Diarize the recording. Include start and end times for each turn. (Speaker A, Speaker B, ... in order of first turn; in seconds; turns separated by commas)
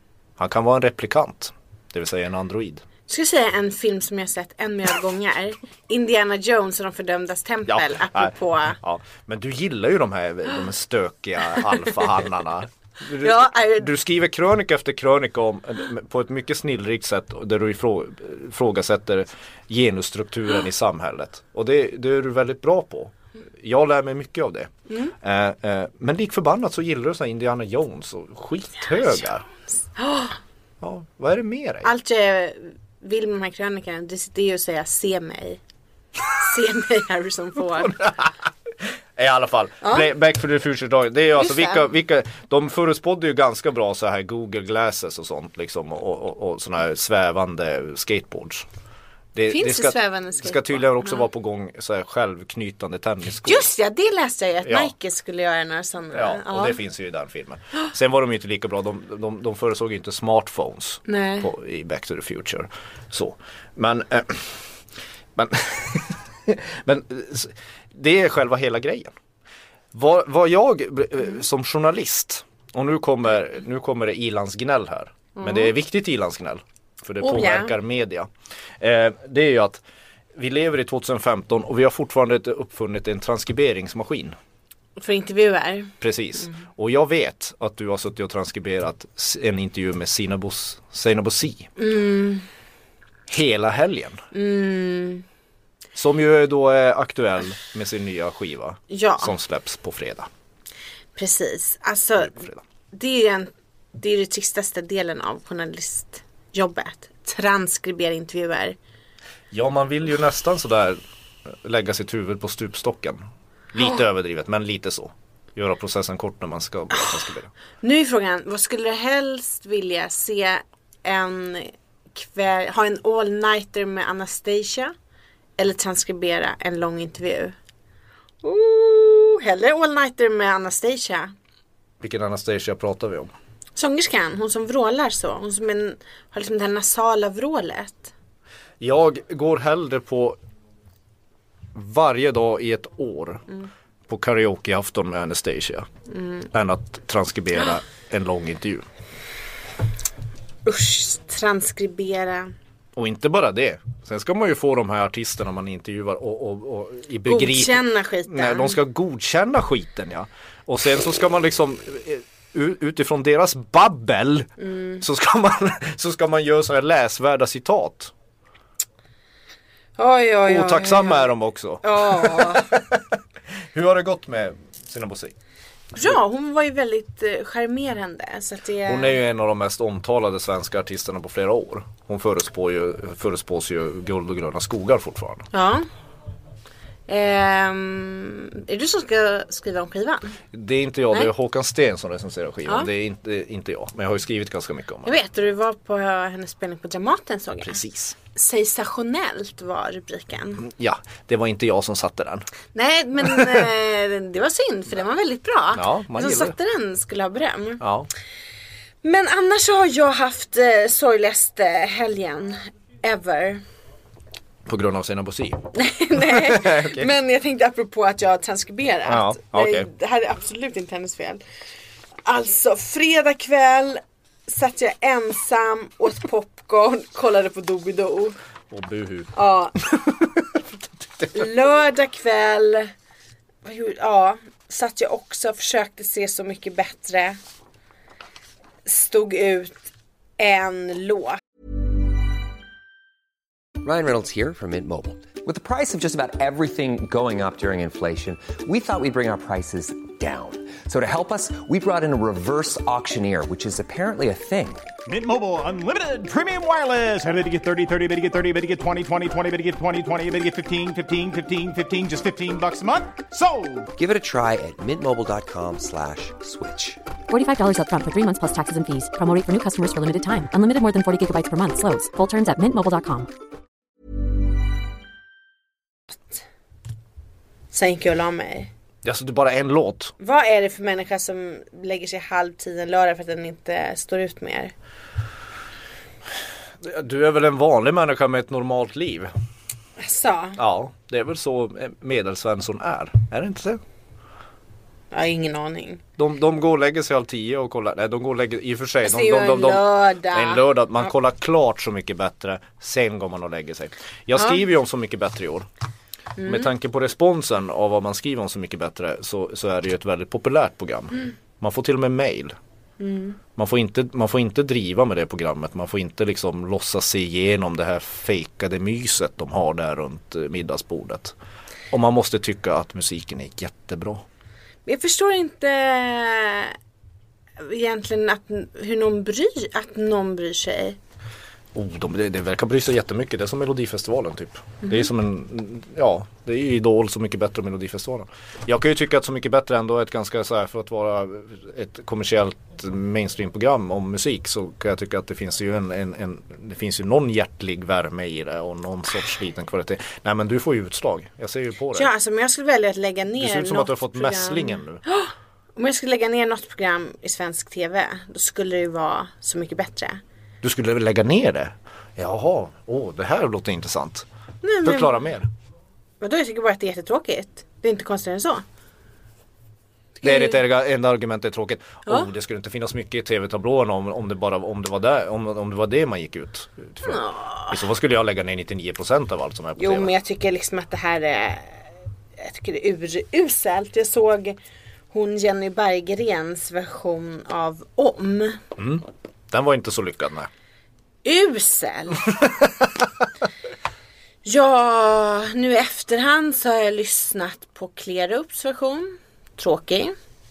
Speaker A: 0.4-2.8, Speaker B: 3.1-8.8, Speaker A: 7.7-29.5, Speaker B: 13.1-13.9, Speaker B: 24.9-25.1, Speaker B: 30.0-30.4, Speaker A: 30.8-31.9, Speaker B: 31.8-35.6, Speaker B: 36.3-38.0, Speaker A: 37.8-38.5, Speaker A: 39.2-48.7, Speaker B: 39.8-40.1, Speaker B: 41.4-41.9, Speaker A: 49.4-53.7, Speaker B: 49.5-51.2, Speaker B: 53.4-56.8, Speaker A: 54.6-54.9, Speaker A: 56.1-64.7, Speaker B: 61.1-61.5, Speaker A: 65.4-69.1, Speaker A: 69.9-78.3, Speaker B: 75.4-75.7, Speaker B: 77.2-77.7, Speaker A: 78.8-79.8, Speaker A: 80.3-84.4, Speaker B: 85.0-86.6, Speaker A: 86.0-91.7, Speaker B: 91.8-92.5, Speaker A: 93.3-94.2, Speaker B: 94.3-95.3, Speaker A: 96.0-100.3, Speaker B: 98.9-99.3, Speaker B: 101.2-108.8, Speaker A: 102.2-102.6, Speaker A: 109.5-117.5, Speaker B: 117.8-124.9, Speaker B: 125.6-127.6, Speaker B: 128.4-131.3, Speaker A: 132.0-133.3, Speaker B: 133.8-138.1, Speaker A: 138.8-140.4, Speaker A: 141.7-143.5, Speaker A: 144.1-145.9, Speaker B: 146.1-146.5, Speaker A: 146.5-148.9, Speaker B: 150.7-152.5, Speaker A: 153.0-168.1, Speaker B: 157.3-158.8, Speaker B: 164.6-165.0, Speaker B: 170.0-171.3, Speaker A: 170.5-173.1, Speaker B: 171.8-172.7, Speaker A: 173.7-175.3, Speaker B: 175.9-179.2, Speaker A: 178.9-185.5, Speaker B: 185.5-185.9, Speaker B: 187.1-190.4, Speaker A: 190.5-195.2, Speaker B: 195.1-197.8, Speaker A: 197.7-198.2, Speaker B: 198.3-200.7, Speaker A: 200.6-202.5, Speaker B: 202.7-207.8, Speaker A: 203.2-203.6, Speaker A: 205.7-206.5, Speaker A: 207.8-208.1, Speaker B: 209.0-213.6, Speaker A: 214.7-217.1, Speaker B: 215.7-221.4, Speaker A: 219.1-219.9, Speaker B: 222.2-228.4, Speaker A: 228.7-230.4, Speaker B: 229.3-229.8, Speaker B: 231.3-232.9, Speaker B: 233.7-237.4, Speaker B: 238.8-239.8, Speaker B: 240.4-241.4, Speaker C: 243.8-254.9, Speaker D: 255.1-263.9, Speaker C: 264.0-267.0, Speaker E: 267.3-273.3, Speaker B: 277.7-278.7, Speaker A: 279.0-280.1, Speaker B: 280.2-284.7, Speaker A: 286.8-289.3, Speaker B: 290.0-290.6, Speaker A: 290.6-293.8, Speaker B: 295.1-296.0, Speaker A: 296.2-305.7, Speaker B: 299.0-300.6, Speaker B: 306.4-306.7, Speaker A: 306.4-312.6, Speaker B: 313.0-313.4, Speaker A: 313.6-321.4, Speaker A: 321.9-324.2, Speaker B: 324.9-326.8, Speaker B: 327.6-331.0, Speaker A: 331.7-352.1, Speaker B: 351.9-360.2, Speaker A: 353.4-355.0, Speaker A: 360.6-364.3, Speaker B: 364.6-365.3, Speaker A: 364.8-365.5, Speaker B: 366.2-368.6, Speaker A: 370.2-380.1, Speaker B: 370.2-370.6, Speaker B: 377.0-377.8, Speaker B: 379.8-381.8, Speaker B: 382.4-384.6, Speaker B: 385.1-388.6, Speaker A: 388.8-390.5, Speaker B: 391.2-392.3, Speaker A: 392.6-393.0, Speaker B: 394.4-400.1